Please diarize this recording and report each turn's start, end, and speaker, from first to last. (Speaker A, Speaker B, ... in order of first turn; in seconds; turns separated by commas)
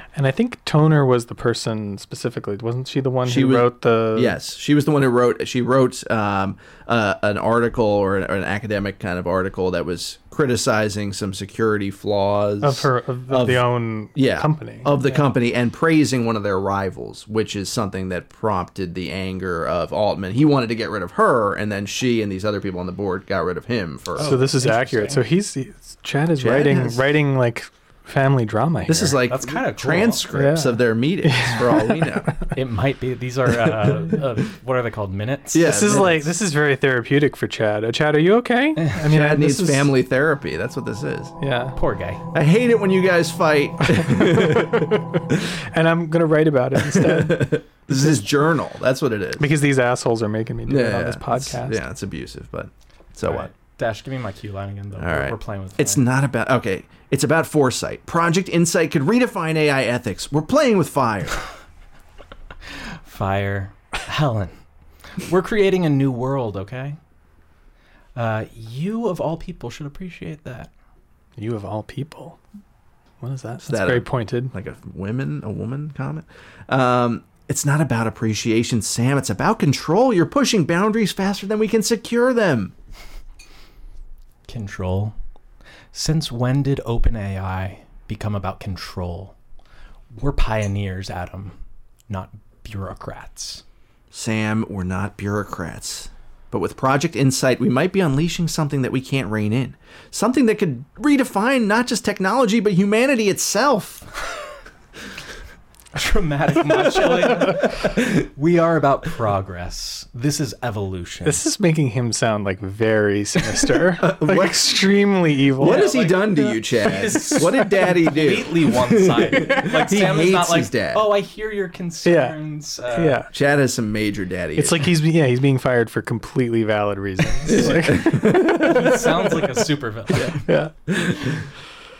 Speaker A: 0.1-4.4, Speaker B: 3.2-24.4, Speaker A: 12.6-15.1, Speaker C: 24.1-25.2, Speaker A: 24.2-29.2, Speaker B: 26.4-27.0, Speaker B: 28.9-32.4, Speaker C: 29.3-30.2, Speaker A: 30.3-32.5, Speaker C: 32.5-36.1, Speaker B: 35.5-36.2, Speaker A: 35.6-39.9, Speaker B: 39.0-41.3, Speaker A: 41.4-41.8, Speaker C: 41.8-42.2, Speaker B: 42.3-45.4, Speaker A: 43.9-48.2, Speaker B: 46.8-49.5, Speaker A: 49.4-51.8, Speaker B: 50.6-53.5, Speaker C: 53.2-56.0, Speaker B: 55.0-61.4, Speaker C: 63.0-64.5, Speaker C: 65.2-67.0, Speaker C: 68.1-70.7, Speaker A: 71.4-72.4, Speaker A: 73.2-74.5, Speaker B: 73.6-82.7, Speaker C: 84.5-85.2, Speaker C: 85.9-89.3, Speaker C: 90.2-91.5, Speaker C: 92.1-93.6, Speaker B: 94.1-104.0, Speaker C: 105.9-111.4, Speaker B: 107.1-108.1, Speaker A: 111.2-116.5, Speaker B: 114.0-114.7, Speaker B: 115.6-121.0, Speaker C: 115.6-123.2, Speaker A: 117.0-117.9, Speaker A: 119.2-120.0, Speaker A: 122.0-122.4, Speaker A: 122.9-123.3, Speaker B: 123.3-124.9, Speaker A: 124.5-128.9, Speaker B: 127.4-129.5, Speaker C: 128.3-130.4, Speaker B: 130.1-131.4, Speaker A: 130.4-130.7